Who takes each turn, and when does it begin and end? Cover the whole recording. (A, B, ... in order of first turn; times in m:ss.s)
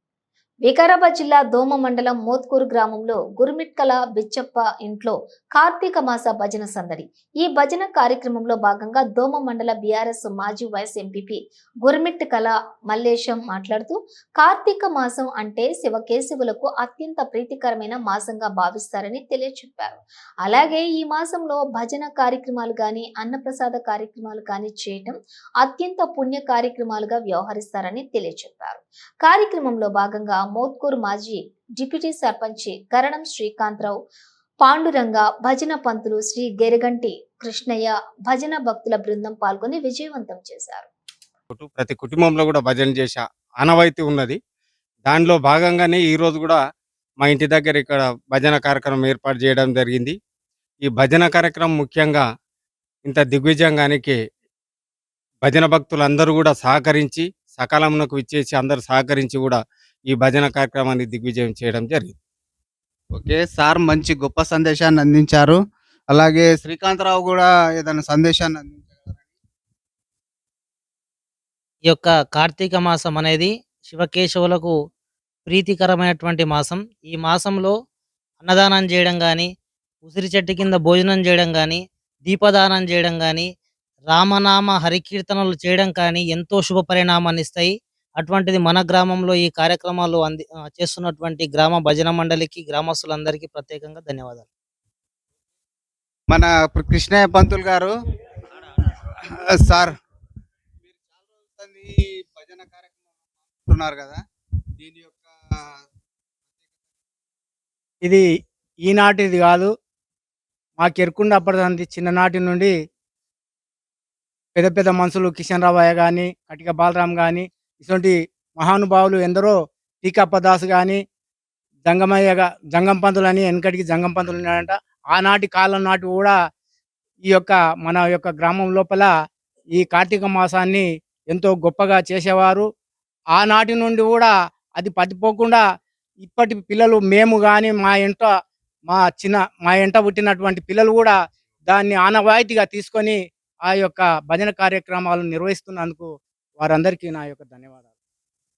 0:00.6-0:34.0 A
0:34.6-0:40.9 A
0:41.5-0:44.4 B
0:45.0-0:46.6 B
0:47.2-0:50.2 B
0:50.8-0:52.2 B
0:53.0-0:54.2 B
0:55.4-0:59.6 B
1:00.1-1:02.1 B
1:03.2-1:05.6 C
1:06.1-1:09.3 C
1:11.9-1:14.7 D
1:15.5-1:17.7 D
1:18.4-1:19.5 D
1:20.0-1:23.5 D
1:24.1-1:34.4 D
1:36.3-1:37.9 C
1:39.2-1:40.0 C
1:40.9-1:44.2 C
1:44.8-1:45.3 C
1:48.8-1:49.7 E
1:50.8-1:52.7 E
1:54.6-2:01.0 E
2:01.9-2:06.4 E
2:07.3-2:09.1 E
2:09.8-2:12.7 E
2:13.4-2:15.6 E
2:16.2-2:18.3 E
2:18.9-2:21.1 E
2:21.7-2:27.8 E